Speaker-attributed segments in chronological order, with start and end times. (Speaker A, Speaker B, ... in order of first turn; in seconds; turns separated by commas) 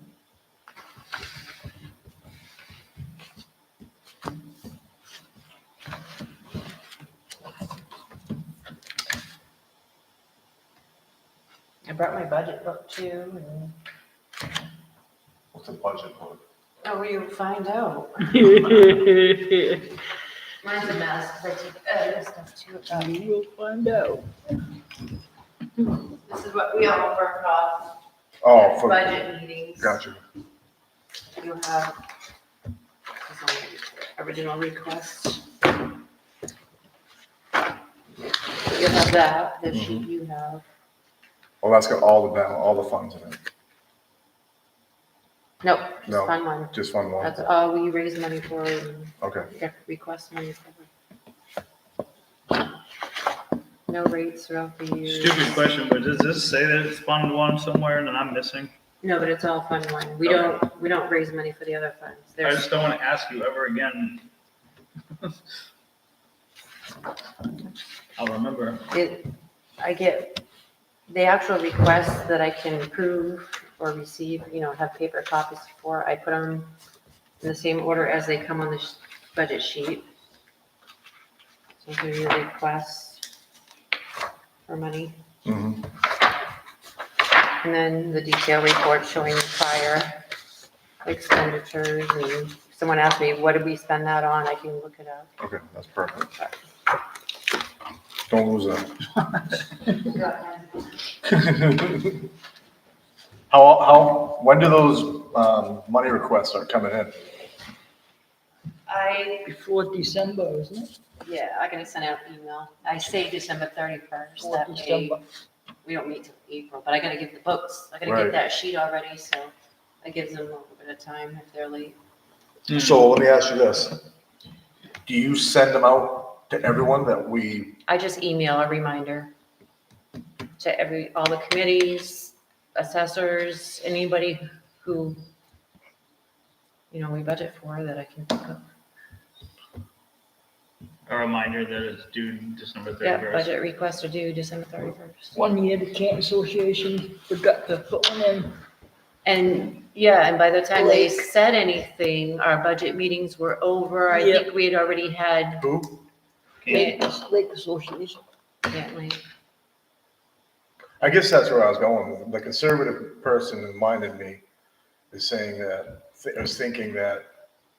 Speaker A: 11.8-13.7, Speaker B: 15.5-16.4, Speaker A: 16.8-19.0, Speaker C: 18.4-19.8, Speaker A: 20.6-23.2, Speaker C: 22.9-24.4, Speaker A: 26.0-27.9, Speaker B: 28.4-30.2, Speaker A: 28.5-30.0, Speaker A: 31.4-32.0, Speaker A: 33.2-35.4, Speaker A: 38.7-40.6, Speaker B: 41.6-43.4, Speaker A: 45.6-50.9, Speaker B: 46.0-47.3, Speaker B: 49.2-49.5, Speaker A: 53.9-55.5, Speaker D: 55.0-58.7, Speaker A: 59.0-62.7, Speaker D: 60.2-60.6, Speaker D: 62.4-64.2, Speaker D: 68.2-68.9, Speaker A: 68.9-69.3, Speaker A: 69.8-70.4, Speaker A: 71.1-76.7, Speaker A: 77.4-80.0, Speaker A: 81.8-83.2, Speaker A: 84.7-85.2, Speaker B: 85.4-85.9, Speaker A: 87.6-90.2, Speaker A: 91.0-95.3, Speaker B: 95.4-96.3, Speaker B: 98.3-98.9, Speaker A: 99.9-100.9, Speaker B: 101.2-102.2, Speaker B: 103.5-107.2, Speaker A: 108.9-109.5, Speaker C: 109.4-110.9, Speaker A: 111.2-115.2, Speaker C: 114.4-115.2, Speaker A: 115.8-122.0, Speaker B: 118.0-118.4, Speaker B: 122.7-124.0, Speaker D: 122.7-123.1, Speaker B: 125.0-127.8, Speaker A: 127.9-129.3, Speaker A: 130.6-135.2, Speaker A: 136.9-138.6, Speaker D: 141.1-143.5, Speaker A: 143.0-145.3, Speaker C: 145.3-148.6, Speaker A: 149.2-155.7, Speaker C: 150.8-151.1, Speaker C: 154.1-154.5, Speaker B: 155.6-156.0, Speaker D: 156.6-156.9, Speaker C: 156.7-158.2, Speaker A: 156.7-157.0, Speaker A: 158.7-159.2, Speaker B: 161.0-164.4, Speaker B: 165.1-167.2